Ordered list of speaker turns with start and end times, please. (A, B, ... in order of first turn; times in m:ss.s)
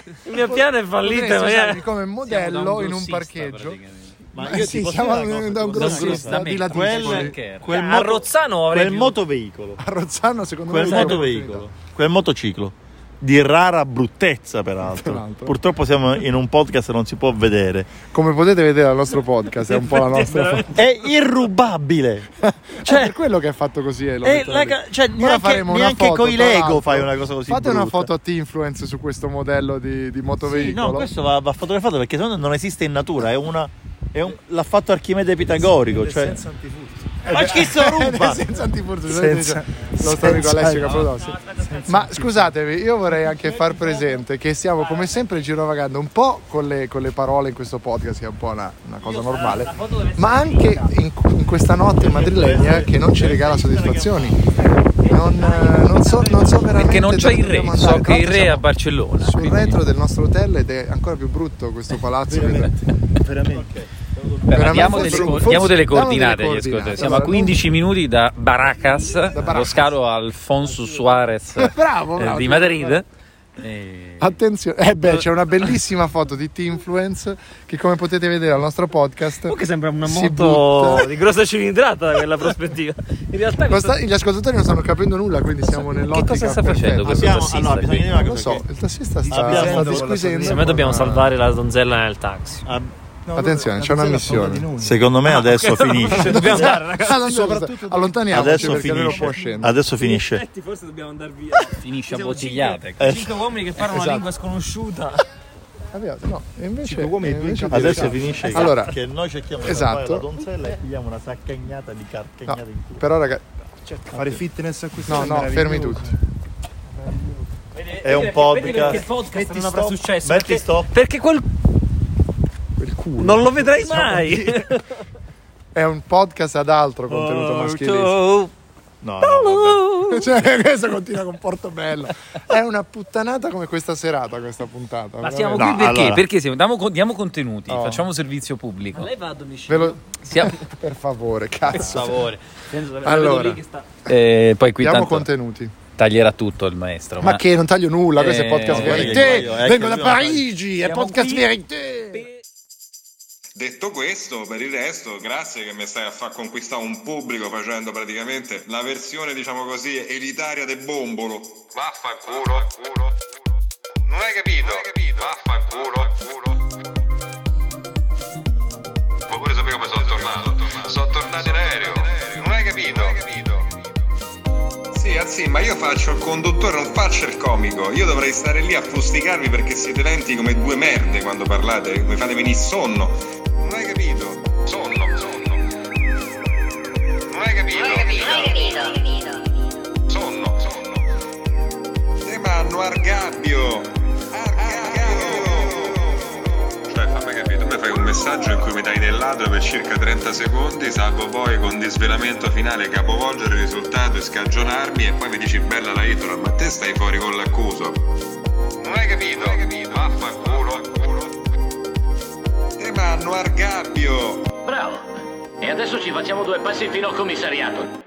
0:00.2-0:01.8 A
0:00.3-0:03.8 B
0:02.2-0:04.2 C
0:04.3-0:09.8 D
0:04.4-0:07.4 B
0:05.7-0:07.7 C
0:07.7-0:09.2 A
0:09.8-0:11.7 B
0:10.7-0:18.0 D
0:10.9-0:11.2 C
0:14.9-0:15.6 B
0:18.1-0:20.8 B
0:20.0-0:20.3 A
0:20.7-0:22.3 D
0:22.4-0:31.1 B
0:22.8-0:23.2 D
0:24.2-0:28.1 D
0:30.4-0:36.4 D
0:35.8-0:37.1 E
0:37.2-0:38.4 D
0:37.3-0:54.4 B
0:39.1-0:41.1 D
0:49.0-0:50.8 A
0:52.0-0:54.1 D
0:55.0-0:58.7 B
0:56.8-0:59.8 C
0:59.2-1:02.8 B
1:02.3-1:02.7 D
1:03.2-1:05.7 D
1:04.5-1:13.0 C
1:04.5-1:07.6 B
1:09.3-1:09.9 B
1:11.6-1:13.0 B
1:13.6-1:14.4 C
1:14.2-1:21.2 B
1:19.4-1:23.9 A
1:23.7-1:31.4 B
1:26.1-1:28.1 C
1:27.0-1:28.6 D
1:29.3-1:30.1 E
1:29.3-1:30.5 D
1:29.6-1:32.6 A
1:32.7-1:32.9 D
1:33.2-1:35.1 E
1:33.3-1:34.8 B
1:34.8-1:36.8 D
1:35.2-1:39.0 A
1:36.2-1:39.8 B
1:38.3-1:40.4 D
1:40.0-1:45.2 A
1:41.8-1:43.1 C
1:43.0-1:43.3 D
1:43.9-1:44.3 B
1:45.9-1:48.9 B
1:46.8-1:48.5 E
1:47.7-1:53.0 D
1:49.6-1:50.2 B
1:52.5-1:53.4 B
1:54.1-1:56.1 E
1:54.1-1:54.4 B
1:55.1-1:56.1 B
1:57.8-2:01.4 A
1:58.0-2:01.0 D
2:02.8-2:04.6 B
2:03.2-2:04.8 A
2:05.7-2:08.2 B
2:07.1-2:07.6 D
2:07.2-2:08.5 A
2:09.0-2:09.8 D
2:09.2-2:10.1 A
2:10.1-2:15.8 B
2:15.2-2:15.8 A
2:15.6-2:19.1 C
2:15.6-2:16.2 D
2:17.7-2:18.1 B
2:19.0-2:20.1 A
2:19.7-2:22.2 B
2:20.2-2:20.6 C
2:21.8-2:23.8 A
2:23.0-2:23.6 B
2:24.1-2:25.3 C
2:24.8-2:25.7 B
2:26.0-2:27.4 C
2:27.2-2:32.2 B
2:28.2-2:29.5 C
2:28.7-2:30.4 D
2:33.6-2:43.1 F
2:44.1-2:46.6 F
2:49.3-2:53.6 F
2:54.9-3:05.6 F
3:07.3-3:08.6 F
3:08.2-3:08.8 G
3:10.1-3:11.0 F
3:12.2-3:16.1 F
3:16.9-3:28.0 F
3:28.8-3:31.3 F
3:32.8-3:34.5 F
3:34.6-3:35.0 G
3:35.6-3:38.0 G